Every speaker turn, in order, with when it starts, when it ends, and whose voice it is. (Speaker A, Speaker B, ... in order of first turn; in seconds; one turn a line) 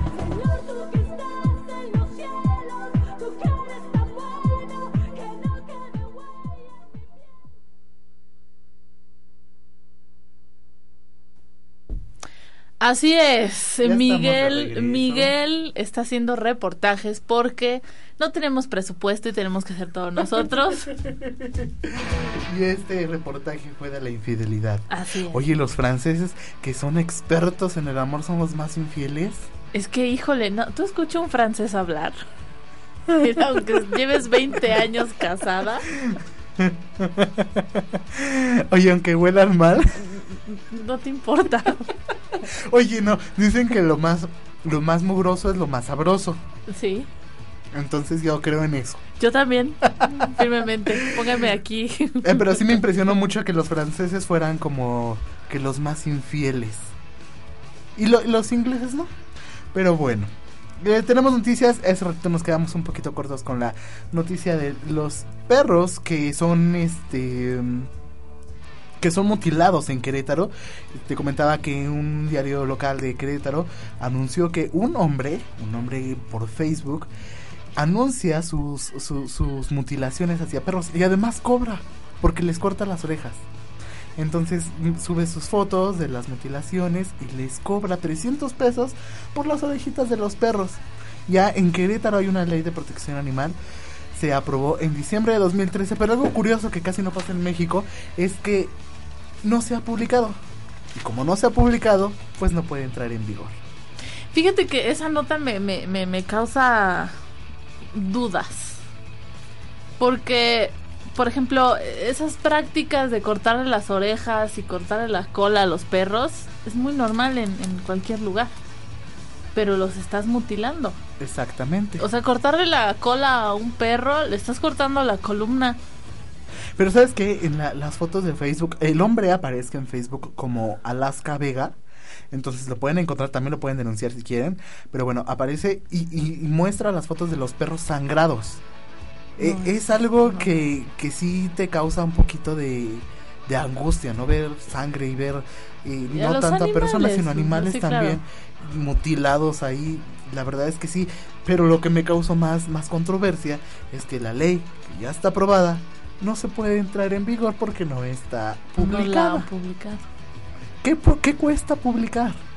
Speaker A: 12.8-20.9
Speaker B: 13.8-15.3
Speaker B: 21.0-29.5
Speaker A: 24.9-25.4
Speaker A: 29.7-32.1
Speaker A: 33.1-35.9
Speaker B: 35.9-40.0
Speaker A: 40.5-41.9
Speaker B: 42.5-46.4
Speaker A: 46.7-47.1
Speaker B: 47.7-49.0
Speaker A: 49.2-52.8
Speaker B: 49.9-50.3
Speaker B: 52.2-56.9
Speaker B: 58.0-59.1
Speaker B: 59.7-67.9
Speaker B: 69.0-77.1
Speaker B: 77.8-83.4
Speaker B: 84.2-93.6
Speaker B: 94.1-98.7
Speaker B: 99.4-100.4
Speaker B: 100.9-103.5
Speaker A: 104.3-107.1
Speaker A: 107.9-108.8
Speaker A: 110.0-118.5
Speaker A: 119.5-121.0
Speaker B: 121.2-122.0
Speaker A: 122.0-125.8
Speaker B: 126.8-131.8
Speaker B: 132.3-138.6
Speaker B: 139.4-159.5
Speaker A: 139.4-140.5
Speaker A: 146.1-148.2
Speaker A: 158.8-160.0
Speaker B: 160.8-162.4